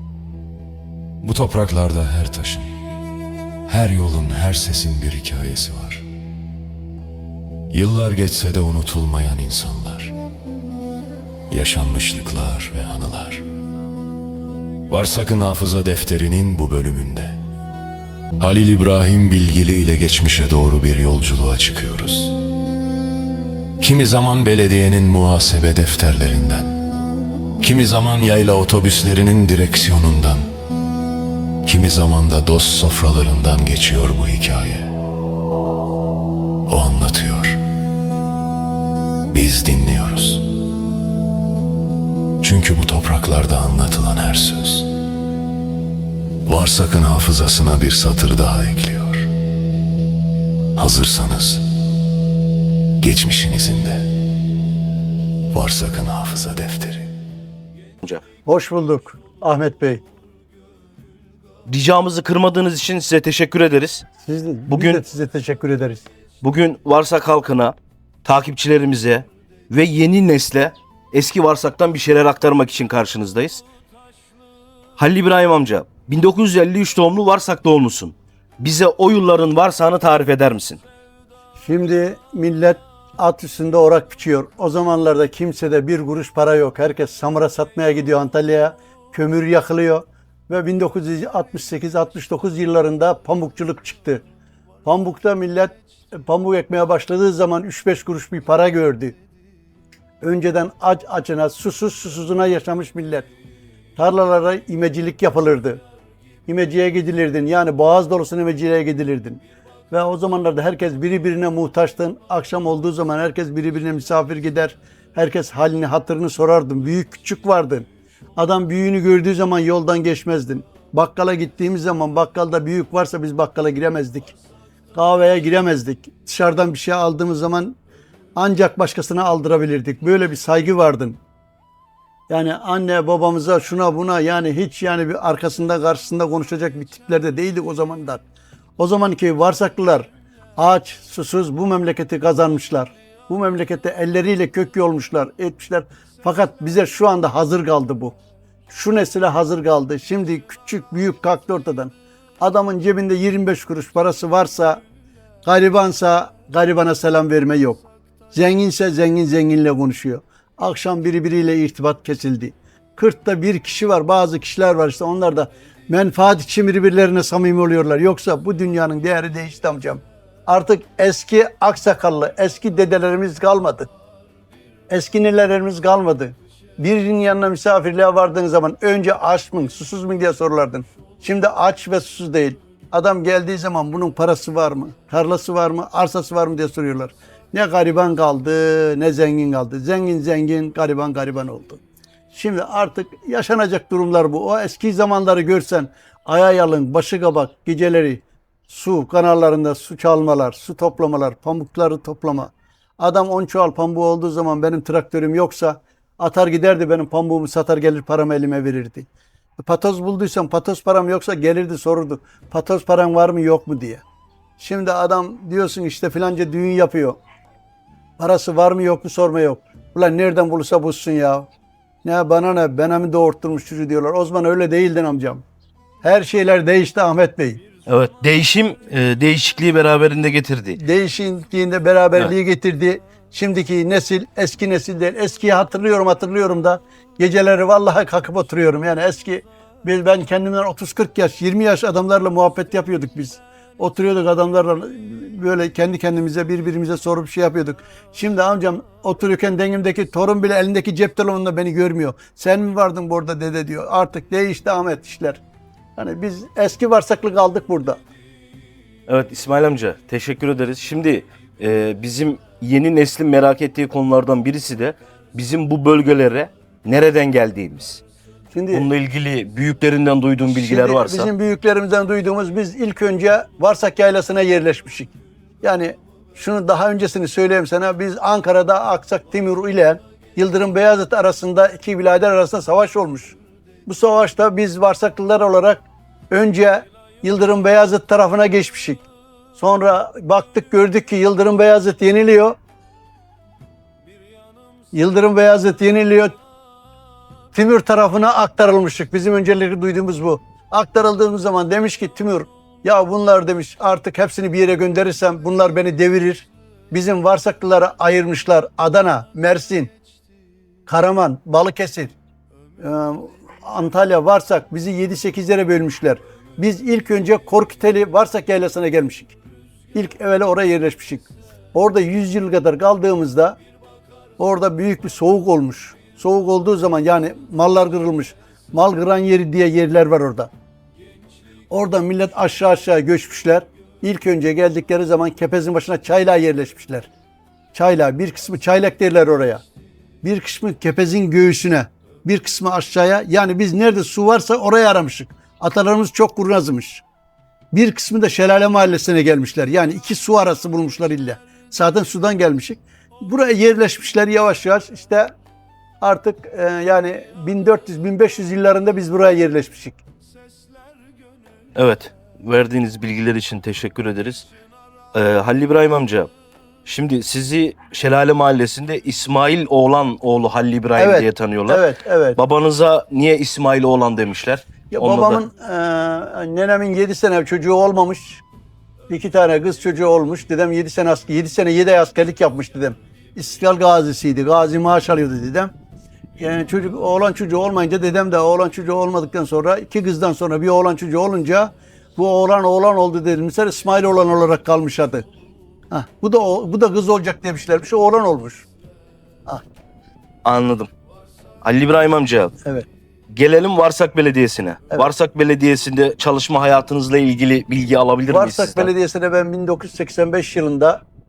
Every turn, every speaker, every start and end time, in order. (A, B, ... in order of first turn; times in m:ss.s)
0:01.2-0:02.7 A
0:03.7-0:06.0 A
0:07.7-0:10.1 A
0:11.5-0:13.4 A
0:14.9-0:17.4 A
0:18.4-0:22.3 A
0:23.8-0:26.7 A
0:27.6-0:30.4 A
0:31.6-0:34.9 A
0:36.7-0:37.6 A
0:39.3-0:40.4 A
0:42.4-0:44.8 A
0:46.4-0:49.3 A
0:50.8-0:51.6 A
0:53.0-0:54.0 A
0:55.5-0:57.1 A
0:58.4-1:00.0 B
1:01.7-1:04.0 C
1:04.2-1:06.0 B
1:04.7-1:05.0 C
1:06.4-1:13.6 C
1:15.0-1:20.8 C
1:21.6-1:34.2 B
1:34.8-1:39.1 B
1:40.2-1:43.3 B
1:44.0-1:45.8 B
1:46.5-2:04.3 B
2:04.9-2:07.8 B
2:08.3-2:11.2 B
2:12.3-2:18.2 B
2:18.8-2:28.1 B
2:28.7-2:34.8 B
2:35.4-2:53.9 B
2:54.9-3:11.8 B
3:12.3-3:29.1 B
3:29.6-3:34.0 B
3:34.6-3:37.2 B
3:38.2-3:41.5 B
3:42.0-3:45.4 B
3:46.0-3:47.6 B
3:47.9-3:50.8 C
3:50.8-4:15.4 B
4:16.0-4:18.0 B
4:19.1-4:28.0 C
4:28.5-4:28.8 B
4:28.7-4:31.3 C
4:30.5-4:35.1 B
4:35.6-4:49.0 B
4:49.5-4:52.6 B
4:54.9-4:56.3 B
4:57.5-5:09.9 B
5:10.9-5:12.1 B
5:12.8-5:19.3 B
5:19.9-5:23.6 B
5:24.4-5:30.5 B
5:31.7-5:37.1 B
5:37.7-5:39.6 B
5:40.2-5:47.0 B
5:47.7-5:55.3 B
5:56.0-6:00.0 B
6:01.8-6:04.4 C
6:05.1-6:06.3 C
6:06.8-6:15.4 C
6:11.0-6:12.4 B
6:14.9-6:18.4 B
6:19.1-6:25.7 B
6:26.4-6:35.2 B
6:35.9-6:38.6 B
6:40.4-6:40.9 C
6:41.6-6:42.5 C
6:42.6-6:42.9 B
6:43.3-6:48.9 C
6:48.3-6:51.0 B